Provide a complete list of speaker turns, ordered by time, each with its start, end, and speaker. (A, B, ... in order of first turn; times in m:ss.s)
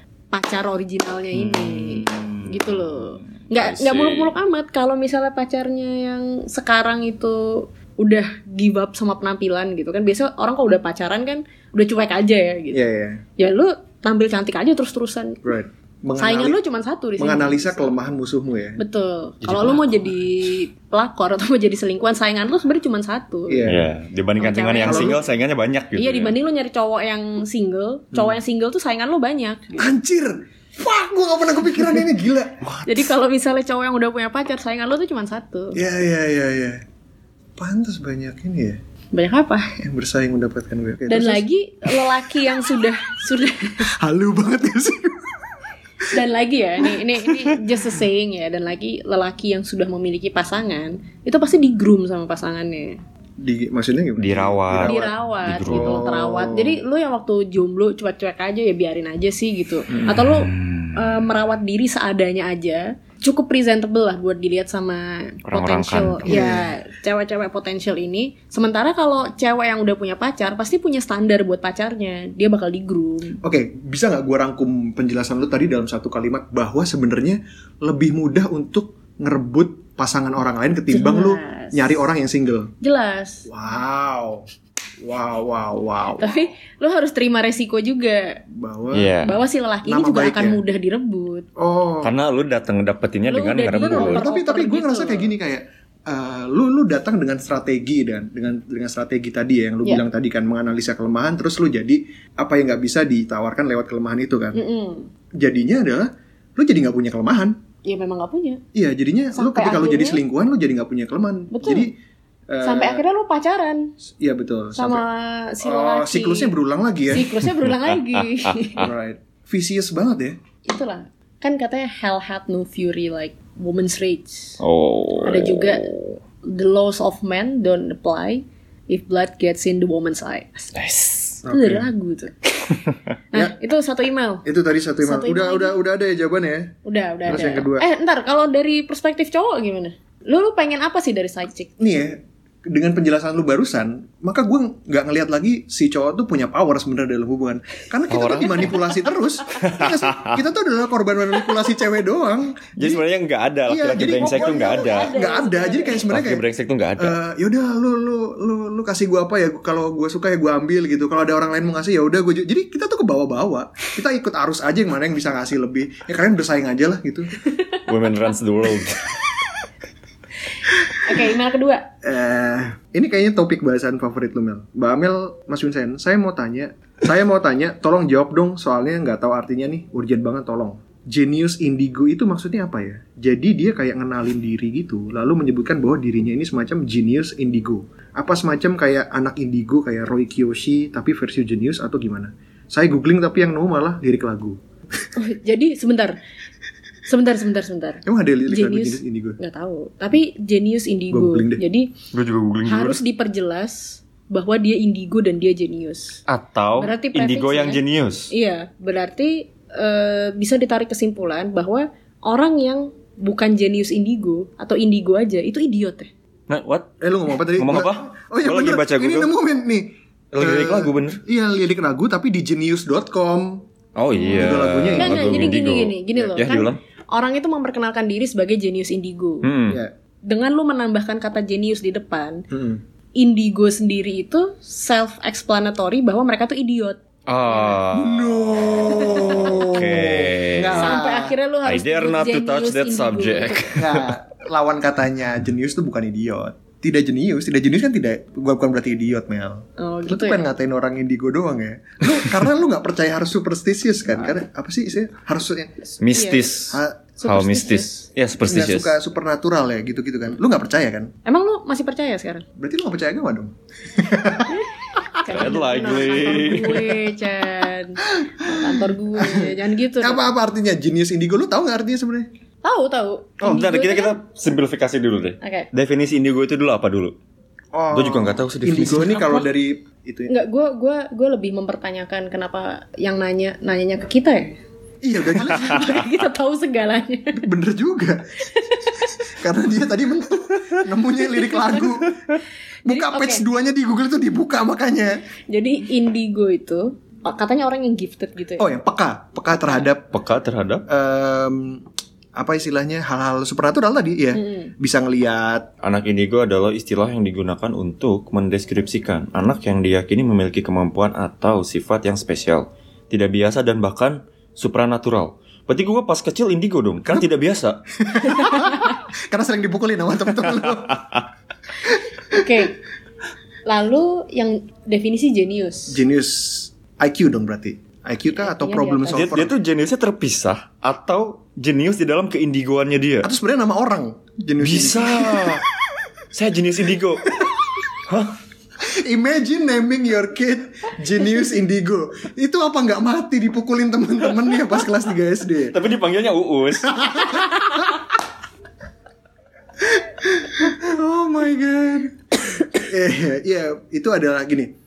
0:00.3-0:12.8 A
0:01.3-0:04.3 B
0:12.7-0:13.2 C
0:13.4-0:15.4 A
0:15.4-0:16.6 C
0:16.2-0:17.9 A
0:17.2-0:18.8 C
0:18.8-0:23.7 A
0:19.4-0:20.1 B
0:23.5-0:23.9 C
0:23.6-0:26.3 B
0:24.4-0:25.2 A
0:24.8-0:25.2 C
0:25.9-0:29.9 A
0:28.1-0:28.4 C
0:29.8-0:32.6 C
0:32.6-0:33.1 B
0:32.8-0:35.8 A
0:35.7-0:36.8 C
0:37.6-0:38.8 C
0:39.1-0:39.7 A
0:39.8-0:41.5 C
0:41.1-0:43.9 A
0:43.9-0:45.4 C
0:46.1-0:53.0 A
0:47.3-0:47.6 C
0:53.4-0:55.1 C
0:54.2-0:56.0 B
0:54.8-1:13.4 A
0:55.6-0:56.8 C
1:00.0-1:01.2 B
1:05.5-1:06.4 B
1:06.2-1:06.7 C
1:13.4-1:22.7 C
1:20.9-1:22.0 A
1:22.8-1:23.5 A
1:23.4-1:24.5 C
1:25.0-1:26.4 C
1:26.2-1:28.4 A
1:28.5-1:29.2 C
1:28.9-1:29.4 B
1:29.2-1:31.5 A
1:29.8-1:30.6 C
1:31.6-1:32.1 C
1:32.0-1:34.2 B
1:33.3-1:35.3 A
1:33.8-1:44.6 C
1:44.5-1:45.1 A
1:45.4-1:47.6 C
1:47.8-1:48.6 A
1:48.7-1:51.9 C
1:49.3-1:50.2 A
1:51.5-1:51.9 A
1:52.5-1:53.0 C
1:52.6-1:53.9 A
1:54.0-1:55.0 C
1:54.7-1:56.5 A
1:55.6-1:57.4 C
1:57.1-1:58.9 A
1:58.8-2:00.4 C
2:00.6-2:04.6 A
2:04.6-2:05.8 B
2:05.2-2:14.4 A
2:10.8-2:11.3 B
2:11.4-2:11.9 C
2:14.4-2:16.7 C
2:15.0-2:15.8 A
2:16.8-2:21.8 A
2:17.2-2:17.9 C
2:21.8-2:33.0 C
2:28.1-2:28.8 B
2:29.5-2:30.4 B
2:32.8-2:35.2 B
2:33.7-2:36.4 C
2:34.2-2:36.1 A
2:36.1-2:37.2 B
2:37.0-2:47.4 C
2:47.8-2:49.2 B
2:50.9-2:51.9 A
2:52.0-3:14.6 C
3:15.2-3:16.2 A
3:17.1-3:21.9 A
3:18.0-3:19.4 C
3:21.1-3:21.6 C
3:22.1-3:23.0 B
3:22.6-3:26.2 A
3:26.3-3:28.3 B
3:26.8-3:36.1 A
3:36.5-3:36.9 B
3:37.0-3:43.6 C
3:37.6-3:39.3 B
3:40.3-3:41.2 B
3:44.0-3:46.8 B
3:44.2-3:45.6 C
3:45.0-3:49.5 A
3:46.2-3:46.5 C
3:49.4-3:49.8 B
3:50.3-3:52.4 A
3:52.5-3:52.8 C
3:53.2-3:57.8 A
3:57.3-4:00.9 B
3:57.9-4:01.3 C
3:58.8-3:59.6 A
4:00.8-4:03.8 A
4:01.6-4:04.1 B
4:03.7-4:15.9 C
4:09.8-4:10.5 A
4:16.0-4:18.9 B
4:16.1-4:16.5 A
4:16.7-4:17.1 C
4:17.2-4:18.0 A
4:18.4-4:21.1 C
4:21.2-4:22.4 A
4:22.6-4:24.6 C
4:24.5-4:30.3 A
4:25.2-4:27.0 B
4:28.1-4:32.3 C
4:32.6-4:34.2 A
4:33.4-4:37.1 B
4:35.4-4:35.7 A
4:37.7-4:40.3 C
4:37.9-4:39.4 B
4:40.3-4:44.6 A
4:45.0-4:46.1 C
4:45.4-4:47.4 A
4:45.7-4:46.0 B
4:47.3-4:48.3 C
4:48.4-4:48.9 A
4:49.3-4:52.1 C
4:51.4-4:51.8 A
4:52.8-4:53.4 A
4:52.8-4:55.2 C
4:55.5-4:58.7 A
4:58.6-5:00.1 C
5:00.1-5:00.8 B
5:00.9-5:01.8 C
5:02.4-5:05.7 C
5:04.3-5:04.7 A
5:05.8-5:17.8 B
5:18.0-5:21.1 C
5:18.3-5:18.9 A
5:22.3-5:22.8 A
5:22.3-5:22.6 C
5:23.6-5:26.0 A
5:25.9-5:29.5 C
5:28.4-5:29.4 A
5:29.1-5:33.3 B
5:33.2-5:35.6 C
5:34.6-5:35.6 B
5:36.3-5:37.3 B
5:38.1-5:38.3 B
5:38.8-5:45.8 C
5:45.7-5:47.5 B
5:46.9-5:48.1 C
5:49.8-5:54.7 C